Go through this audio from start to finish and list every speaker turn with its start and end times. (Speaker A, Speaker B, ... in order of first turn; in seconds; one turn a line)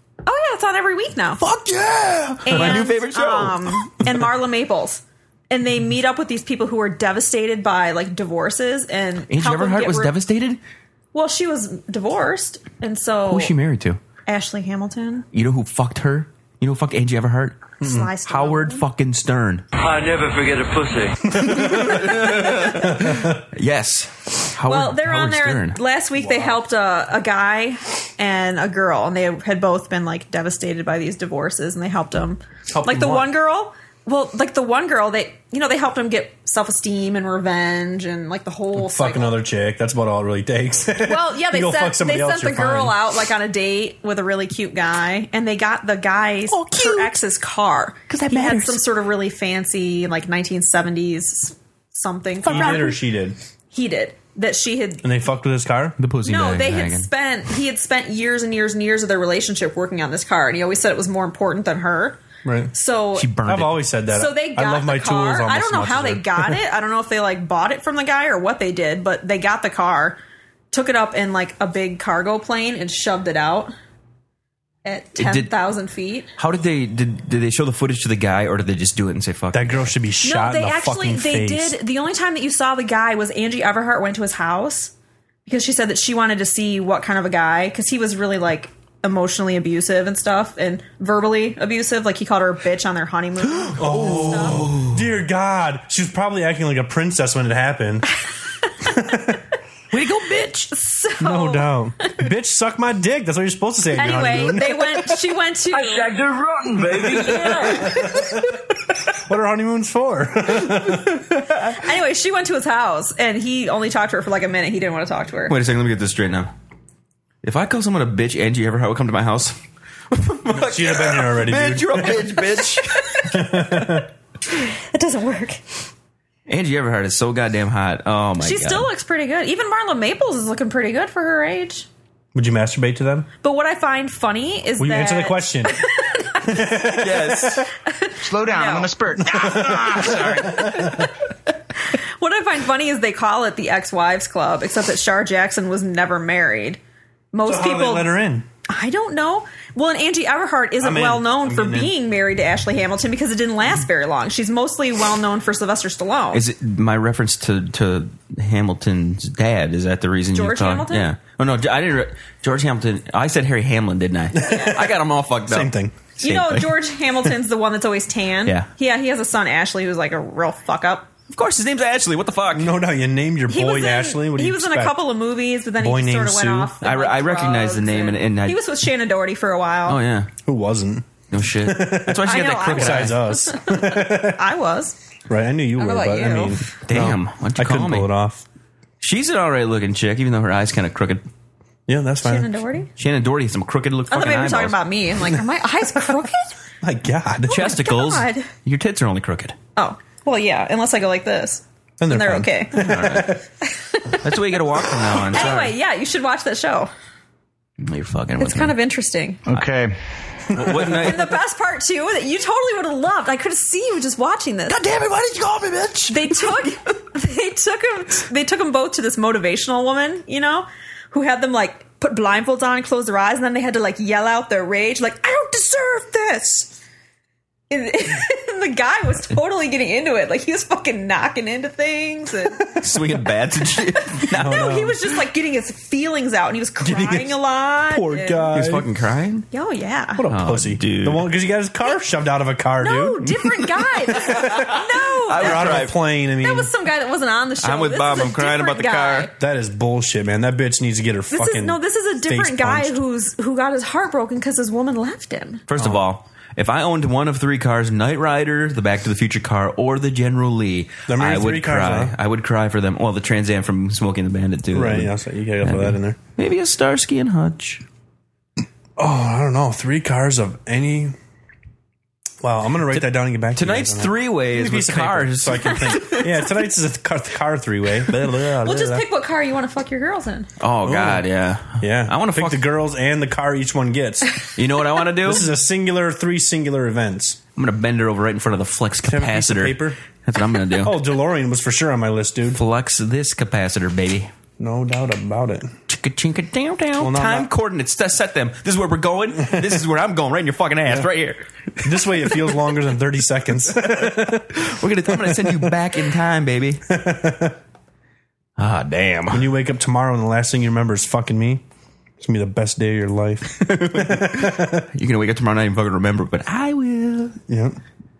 Speaker A: 0.2-1.4
Speaker B: 1.4-4.1
Speaker A: 2.5-10.1
Speaker B: 9.3-10.6
Speaker A: 11.1-13.5
Speaker B: 13.3-14.0
Speaker A: 14.2-15.3
Speaker B: 15.3-19.6
Speaker C: 17.8-18.1
Speaker A: 17.8-18.8
Speaker D: 19.8-21.3
Speaker C: 21.3-23.4
Speaker B: 21.5-25.8
Speaker A: 24.7-39.4
Speaker C: 26.1-26.6
Speaker C: 32.7-33.3
Speaker C: 38.8-43.0
Speaker A: 41.0-53.0
Speaker B: 46.5-47.1
Speaker B: 48.1-48.8
Speaker C: 52.4-53.4
Speaker B: 52.5-52.9
Speaker A: 53.7-55.1
Speaker C: 55.0-56.0
Speaker B: 56.0-57.1
Speaker A: 56.2-62.2
Speaker C: 62.4-62.7
Speaker A: 62.7-63.3
Speaker B: 63.1-63.8
Speaker C: 63.4-66.6
Speaker A: 64.1-70.2
Speaker A: 70.7-73.7
Speaker A: 74.8-76.3
Speaker B: 75.2-75.5
Speaker B: 76.4-79.9
Speaker C: 79.5-81.7
Speaker A: 80.2-84.9
Speaker A: 85.5-94.6
Speaker B: 93.5-95.1
Speaker C: 93.8-98.1
Speaker C: 98.8-99.4
Speaker B: 99.9-100.7
Speaker A: 100.7-102.2
Speaker C: 101.2-105.2
Speaker A: 103.9-106.2
Speaker D: 105.7-107.9
Speaker C: 107.0-111.2
Speaker A: 107.2-108.6
Speaker A: 111.5-115.5
Speaker B: 115.5-116.5
Speaker B: 117.4-119.5
Speaker B: 120.1-123.2
Speaker C: 120.5-122.4
Speaker C: 123.2-124.1
Speaker A: 124.5-125.6
Speaker B: 126.5-128.9
Speaker A: 128.4-131.9
Speaker C: 132.3-133.3
Speaker A: 133.4-136.6
Speaker C: 134.8-135.8
Speaker C: 136.4-137.7
Speaker B: 136.7-137.7
Speaker A: 137.8-138.9
Speaker E: 138.2-140.7
Speaker C: 139.2-141.1
Speaker A: 140.6-141.1
Speaker A: 141.9-146.8
Speaker A: 147.3-148.1
Speaker C: 147.4-148.5
Speaker A: 148.7-156.4
Speaker C: 150.8-151.9
Speaker B: 156.3-166.8
Speaker A: 160.3-161.1
Speaker C: 164.3-166.0
Speaker A: 164.4-164.7
Speaker A: 166.2-171.1
Speaker B: 171.3-172.7
Speaker C: 172.5-175.0
Speaker A: 173.5-180.0
Speaker C: 175.8-176.7
Speaker B: 176.8-178.6
Speaker B: 179.9-180.3
Speaker C: 180.4-184.4
Speaker B: 181.3-183.2
Speaker A: 182.2-184.9
Speaker C: 185.3-188.4
Speaker A: 185.8-186.6
Speaker B: 186.8-188.1
Speaker B: 189.0-191.2
Speaker C: 191.9-192.5
Speaker A: 192.2-192.9
Speaker B: 193.0-194.8
Speaker A: 194.1-196.6
Speaker C: 196.8-197.6
Speaker A: 197.5-198.5
Speaker B: 197.5-199.6
Speaker A: 199.8-202.8
Speaker C: 202.0-203.4
Speaker B: 202.7-203.4
Speaker A: 203.6-204.2
Speaker B: 204.2-205.7
Speaker C: 205.1-205.5
Speaker A: 205.3-206.9
Speaker B: 207.8-208.7
Speaker A: 208.4-209.4
Speaker E: 209.5-210.0
Speaker C: 210.5-211.1
Speaker B: 210.5-211.3
Speaker A: 211.0-214.8
Speaker B: 214.7-216.8
Speaker A: 216.1-226.8
Speaker A: 227.7-232.7
Speaker B: 232.7-234.7
Speaker A: 234.2-238.5
Speaker C: 234.3-235.0
Speaker C: 236.8-238.9
Speaker B: 238.5-239.4
Speaker A: 239.5-240.3
Speaker C: 240.2-243.3
Speaker B: 240.3-241.3
Speaker A: 242.8-245.9
Speaker C: 244.1-244.8
Speaker B: 244.3-245.9
Speaker C: 245.3-246.7
Speaker A: 246.4-249.3
Speaker B: 247.6-249.3
Speaker C: 249.4-253.0
Speaker A: 251.3-255.6
Speaker B: 255.7-267.8
Speaker C: 255.8-256.0
Speaker C: 261.1-262.1
Speaker C: 264.7-266.2
Speaker C: 269.0-271.1
Speaker C: 272.4-279.0
Speaker B: 272.9-276.4
Speaker A: 278.6-280.5
Speaker B: 280.6-282.6
Speaker C: 280.8-281.2
Speaker C: 281.8-284.4
Speaker B: 284.5-285.5
Speaker C: 285.2-287.4
Speaker B: 287.6-291.0
Speaker C: 289.1-290.0
Speaker C: 290.8-292.6
Speaker B: 292.5-294.3
Speaker C: 294.6-295.7
Speaker B: 295.9-301.9
Speaker C: 297.0-297.5
Speaker C: 301.8-304.6
Speaker B: 304.2-306.8
Speaker C: 305.1-305.7
Speaker C: 306.9-307.6
Speaker B: 308.6-309.5
Speaker C: 309.3-311.6
Speaker C: 312.2-314.9
Speaker B: 313.5-317.4
Speaker C: 317.5-317.8